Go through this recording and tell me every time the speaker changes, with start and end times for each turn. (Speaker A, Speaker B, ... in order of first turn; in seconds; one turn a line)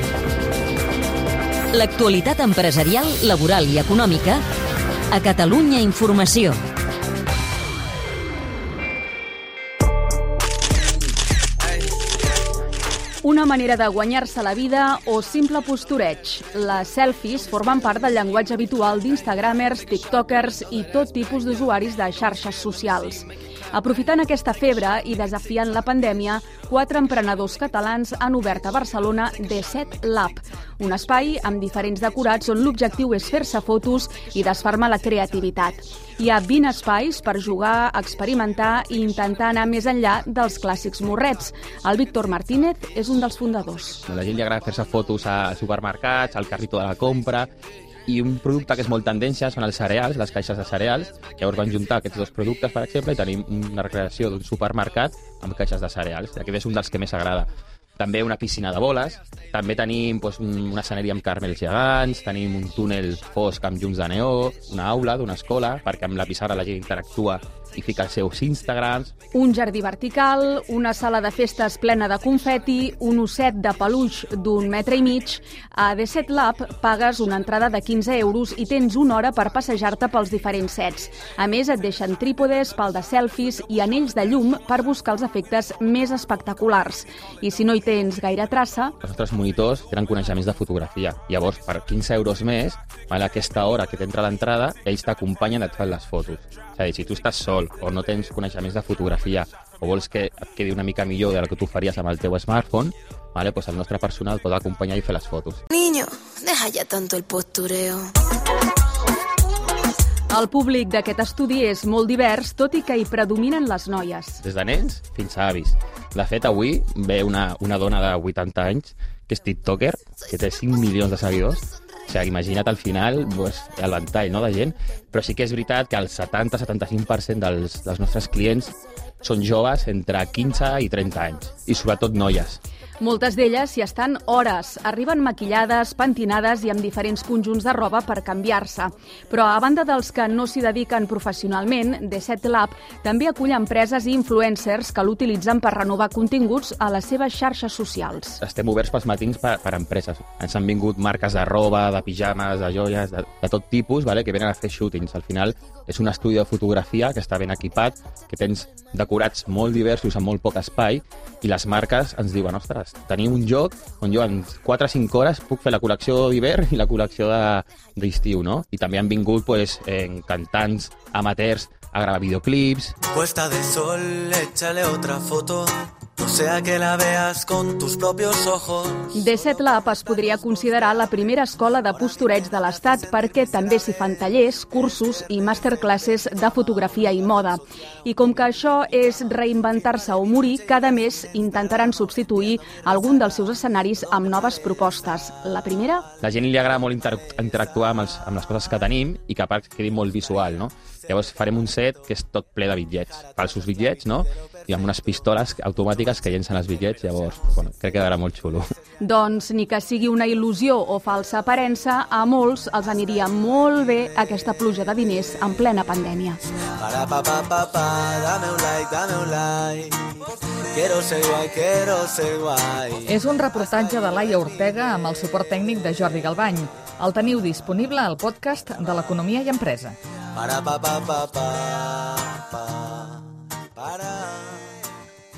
Speaker A: 1.7-4.4
Speaker A: 5.1-6.6
Speaker B: 13.2-44.0
Speaker C: 44.1-47.5
Speaker C: 48.1-69.1
Speaker B: 69.3-88.9
Speaker C: 89.0-105.6
Speaker D: 105.7-108.1
Speaker B: 110.3-114.4
Speaker C: 114.4-132.6
Speaker B: 133.0-148.4
Speaker C: 148.4-172.9
Speaker E: 173.1-179.1
Speaker B: 179.1-196.1
Speaker C: 196.2-208.6
Speaker B: 209.0-216.4
Speaker E: 216.8-223.2
Speaker F: 223.1-230.0
Speaker E: 230.3-233.2
Speaker E: 233.7-234.7